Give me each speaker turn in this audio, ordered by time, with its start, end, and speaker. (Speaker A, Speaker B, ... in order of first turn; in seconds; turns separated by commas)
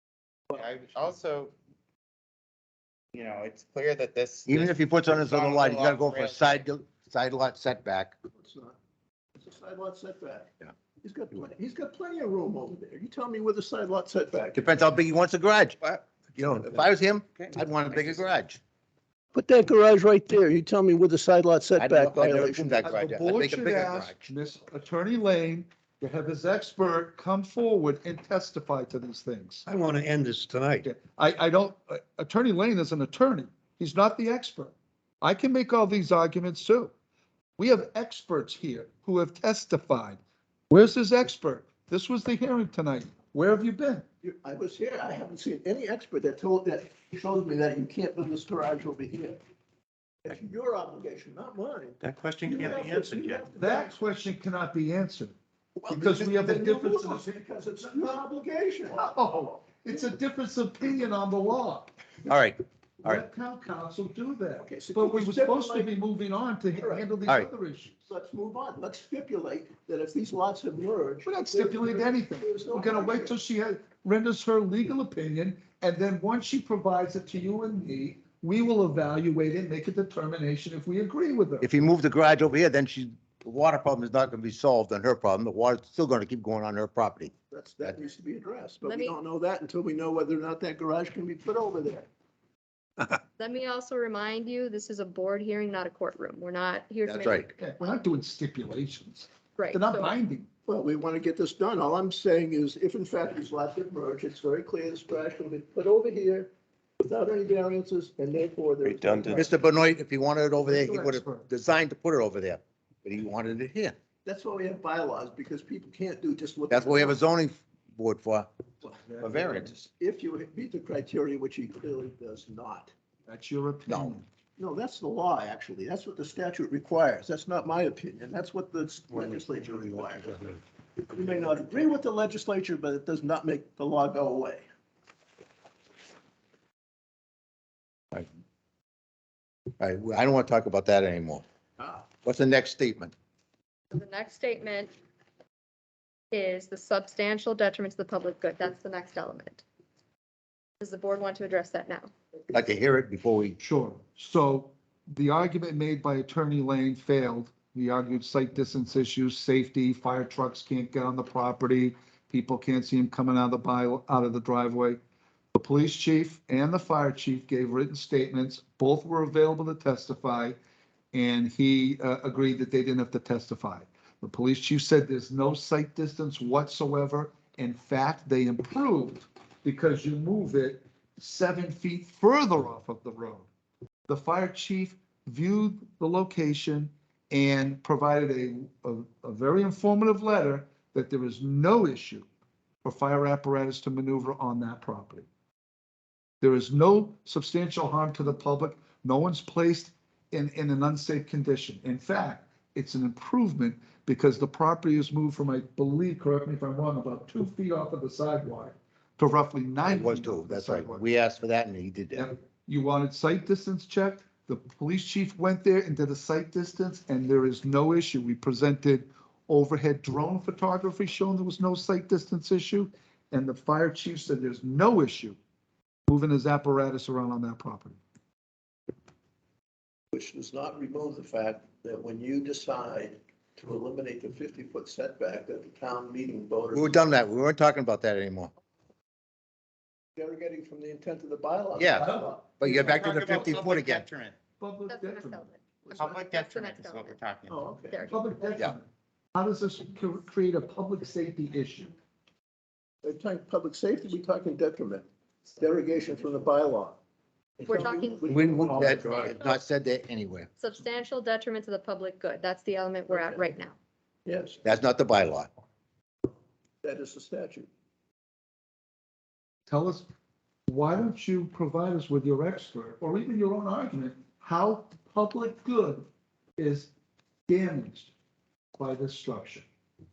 Speaker A: 0.6-1.5, Speaker A: 3.1-6.7, Speaker B: 4.5-8.1, Speaker C: 8.4-8.8, Speaker C: 9.4-14.7, Speaker B: 14.6-18.6, Speaker C: 19.3-22.9, Speaker B: 21.8-24.3, Speaker D: 22.8-29.6, Speaker E: 29.6-30.9, Speaker D: 30.8-36.9, Speaker D: 37.6-44.0, Speaker C: 44.2-49.4, Speaker C: 50.3-54.1, Speaker E: 52.0-53.5, Speaker D: 53.5-55.3, Speaker C: 55.8-59.3, Speaker D: 55.9-57.3, Speaker D: 59.0-61.9, Speaker B: 62.3-63.2, Speaker D: 63.0-68.1, Speaker C: 64.6-65.9, Speaker C: 66.8-67.1, Speaker C: 68.1-73.4, Speaker D: 71.2-81.7, Speaker B: 81.6-88.0, Speaker C: 87.5-92.1, Speaker F: 88.8-89.2, Speaker F: 93.4-97.5, Speaker B: 97.1-97.5, Speaker D: 97.5-100.5, Speaker F: 99.6-100.1, Speaker C: 100.7-109.5, Speaker E: 109.1-109.4, Speaker B: 109.3-114.0, Speaker D: 110.6-111.5, Speaker C: 114.2-117.2, Speaker B: 116.7-118.5, Speaker D: 118.9-119.7, Speaker B: 119.2-119.8, Speaker C: 120.0-122.9, Speaker D: 123.3-124.2, Speaker B: 123.9-124.2, Speaker C: 124.6-130.4, Speaker C: 131.0-134.7, Speaker B: 139.8-141.4, Speaker C: 141.8-142.1, Speaker B: 142.2-143.1, Speaker F: 143.9-144.9, Speaker F: 146.3-149.6, Speaker F: 150.8-152.1, Speaker B: 152.5-153.6, Speaker D: 153.6-165.0, Speaker D: 165.5-170.6, Speaker D: 171.1-183.5, Speaker D: 184.1-192.2, Speaker D: 192.8-195.3, Speaker D: 196.4-211.1, Speaker B: 209.8-212.3, Speaker D: 212.2-225.3, Speaker D: 226.1-228.0, Speaker C: 230.1-237.1, Speaker B: 236.7-238.5, Speaker C: 240.2-242.5, Speaker B: 241.8-242.1, Speaker D: 242.0-243.5, Speaker B: 242.6-244.1, Speaker A: 242.8-244.3, Speaker D: 244.6-245.5, Speaker F: 244.9-247.2, Speaker A: 245.9-247.7, Speaker C: 246.0-246.3, Speaker C: 247.5-248.1, Speaker F: 247.9-248.2, Speaker D: 248.1-251.9, Speaker C: 253.0-255.1, Speaker C: 255.6-257.0, Speaker C: 257.6-259.3, Speaker F: 257.6-258.3, Speaker E: 258.2-259.4, Speaker B: 258.7-260.5, Speaker F: 260.6-263.8, Speaker C: 263.1-263.5, Speaker C: 264.2-264.6, Speaker B: 264.6-265.5, Speaker C: 266.8-267.7, Speaker D: 269.7-270.1, Speaker D: 270.7-276.1, Speaker D: 276.6-276.9, Speaker D: 277.5-278.1, Speaker D: 278.8-279.7